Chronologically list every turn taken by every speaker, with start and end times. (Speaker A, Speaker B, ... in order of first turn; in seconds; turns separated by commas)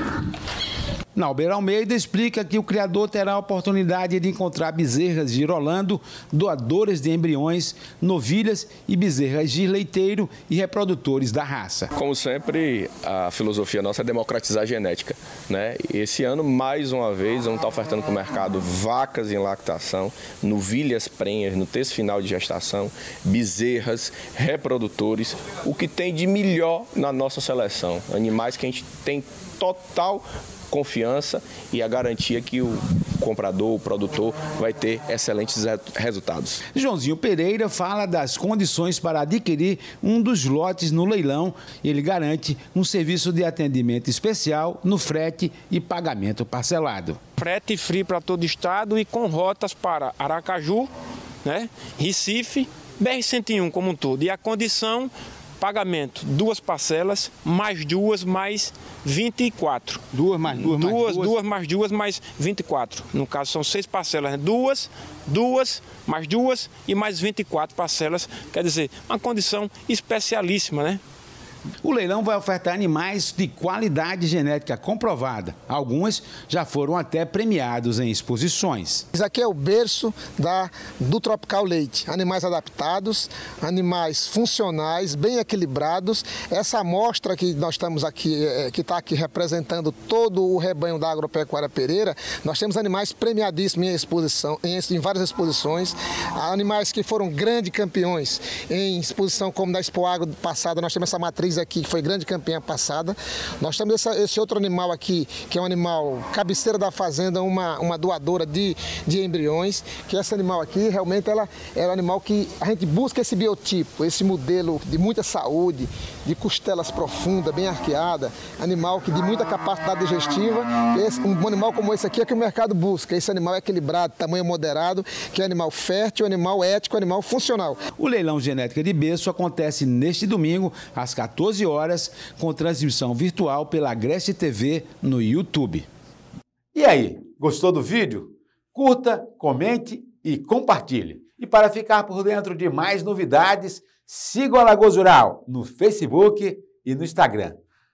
Speaker A: 1.1-11.9, Speaker B: 11.9-36.6, Speaker A: 36.7-47.2, Speaker C: 47.4-50.9, Speaker C: 51.4-60.0, Speaker A: 60.1-61.4, Speaker C: 60.6-71.0, Speaker A: 71.8-79.0, Speaker D: 79.1-127.8, Speaker A: 128.0-135.9, Speaker A: 136.7-147.6